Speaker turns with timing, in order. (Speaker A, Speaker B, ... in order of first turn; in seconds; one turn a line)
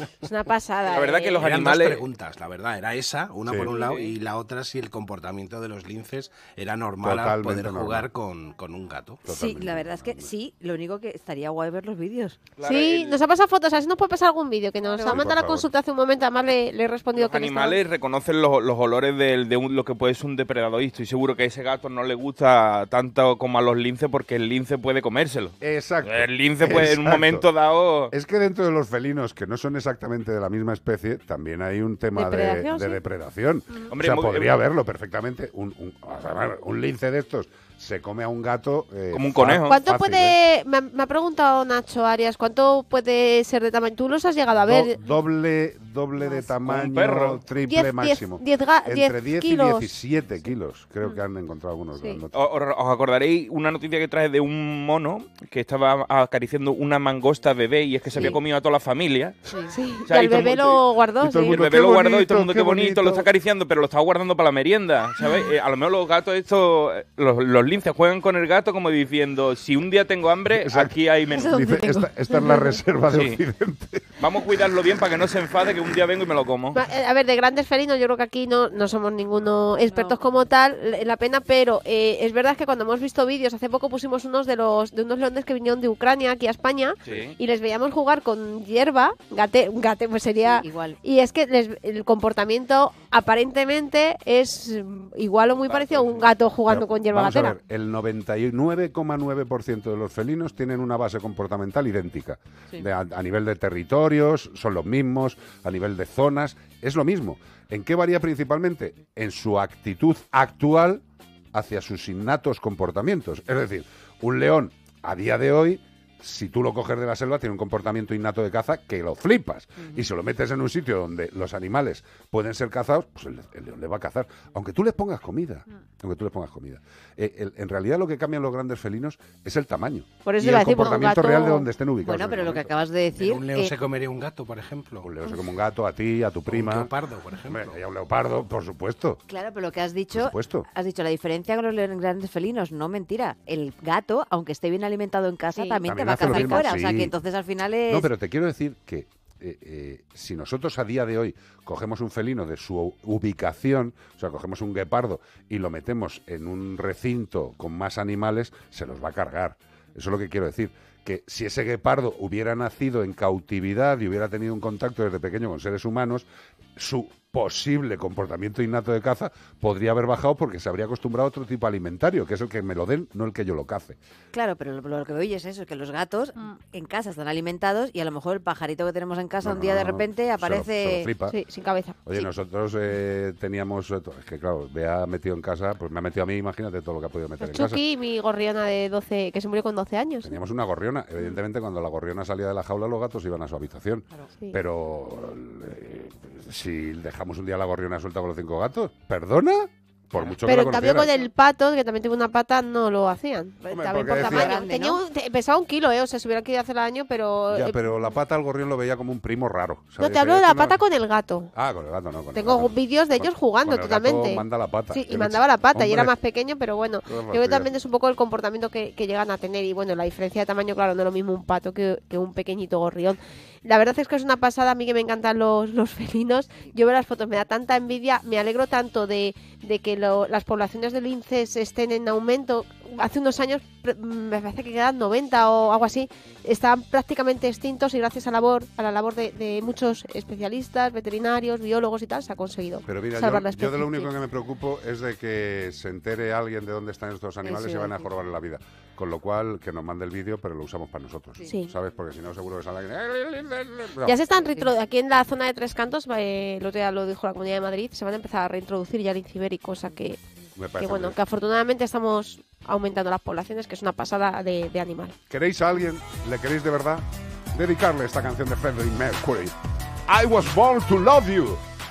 Speaker A: 0.2-1.5
Speaker B: 0.8-2.0
Speaker C: 1.4-9.2
Speaker D: 3.4-3.7
Speaker B: 3.6-4.1
Speaker D: 7.0-8.1
Speaker D: 9.2-10.3
Speaker E: 9.3-12.4
Speaker B: 12.6-13.2
Speaker A: 12.6-17.8
Speaker D: 15.1-15.7
Speaker B: 17.1-28.1
Speaker D: 25.6-27.4
Speaker D: 28.1-40.4
Speaker A: 32.1-33.0
Speaker B: 33.9-34.5
Speaker B: 39.1-39.8
Speaker A: 39.7-44.9
Speaker D: 44.6-52.4
Speaker A: 46.2-46.5
Speaker B: 46.6-47.4
Speaker A: 47.7-49.9
Speaker B: 52.3-59.4
Speaker D: 58.1-58.4
Speaker A: 59.6-61.6
Speaker B: 60.1-60.8
Speaker D: 61.2-63.3
Speaker B: 61.5-71.5
Speaker D: 70.5-74.1
Speaker A: 71.4-72.7
Speaker B: 73.1-73.4
Speaker B: 74.2-76.8
Speaker A: 76.7-97.6
Speaker E: 79.9-80.2
Speaker B: 87.0-87.3
Speaker E: 90.5-91.0
Speaker B: 95.7-96.3
Speaker D: 96.7-111.0
Speaker D: 111.5-132.7
Speaker A: 130.2-131.7
Speaker E: 130.8-131.1
Speaker E: 132.0-133.7
Speaker C: 133.2-135.1
Speaker D: 135.0-136.9
Speaker C: 136.5-137.8
Speaker D: 137.4-139.2
Speaker E: 139.3-148.1
Speaker D: 140.1-140.7
Speaker A: 145.5-146.7
Speaker D: 145.8-147.1
Speaker D: 147.9-174.0
Speaker E: 174.3-181.1
Speaker D: 179.4-181.3
Speaker A: 181.3-182.3
Speaker D: 182.0-187.8
Speaker A: 187.4-190.3
Speaker D: 190.2-201.1
Speaker A: 200.4-207.9
Speaker D: 203.7-204.6
Speaker E: 203.9-205.0
Speaker D: 207.5-210.8
Speaker A: 210.0-211.5
Speaker D: 211.5-216.1
Speaker A: 212.3-244.1
Speaker D: 217.1-217.7
Speaker D: 242.9-254.1
Speaker E: 247.4-248.0
Speaker A: 251.4-251.7
Speaker A: 254.1-260.2
Speaker D: 260.6-261.2
Speaker A: 260.8-265.1
Speaker D: 265.3-269.5
Speaker D: 270.1-271.6